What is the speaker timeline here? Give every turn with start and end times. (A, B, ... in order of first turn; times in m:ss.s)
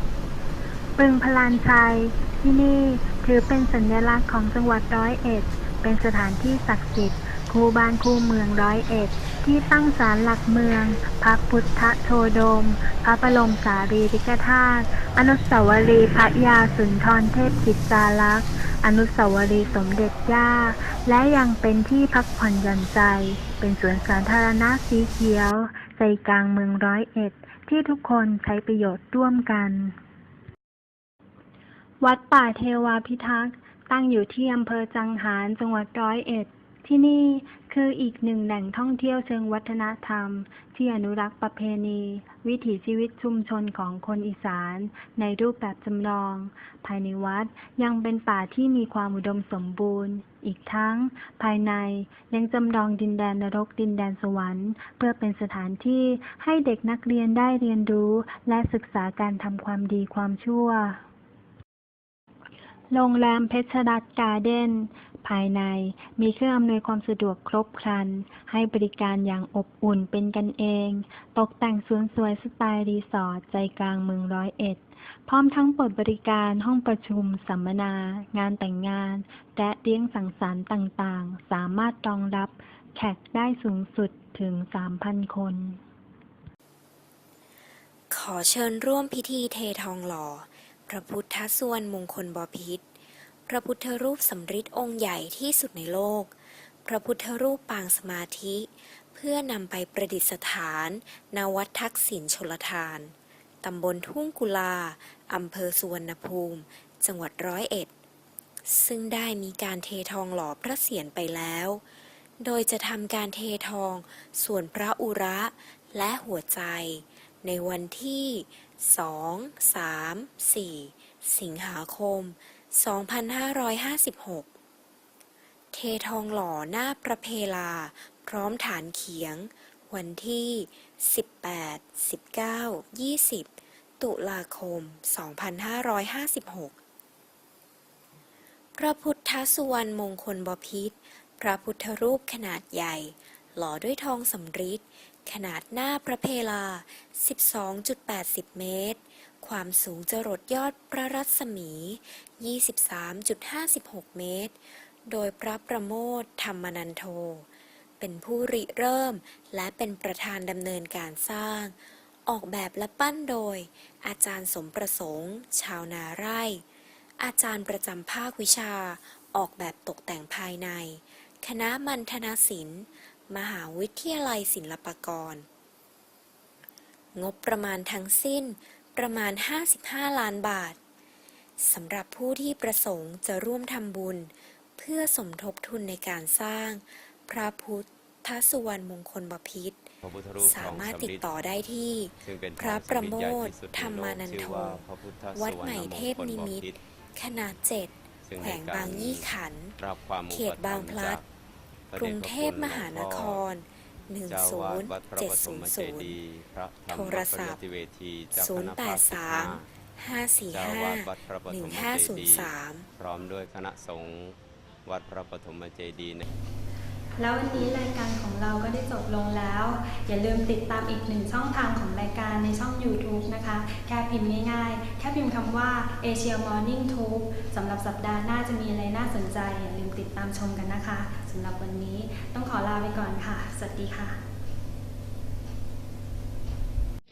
0:01.0-0:30.0 A
0:32.0-1:01.0 A
1:02.9-1:25.8 A
1:28.1-1:32.8 B
1:33.5-1:36.3 B
1:36.8-1:47.9 B
1:48.7-1:51.8 B
1:52.4-2:04.5 B
2:05.7-2:16.8 B
2:18.8-2:37.5 B
2:38.0-2:41.8 B
2:42.3-2:46.6 B
2:47.2-2:55.5 B
2:57.2-3:00.8 B
3:01.6-3:09.9 B
3:10.0-3:11.5 C
3:10.4-3:14.8 B
3:12.2-3:16.8 C
3:15.4-3:19.8 B
3:18.3-3:21.2 C
3:20.3-3:21.2 B
3:21.9-3:23.4 C
3:22.0-3:26.2 B
3:24.3-3:29.7 C
3:26.9-3:27.6 B
3:28.3-3:32.9 B
3:30.5-3:36.3 C
3:37.2-3:54.2 D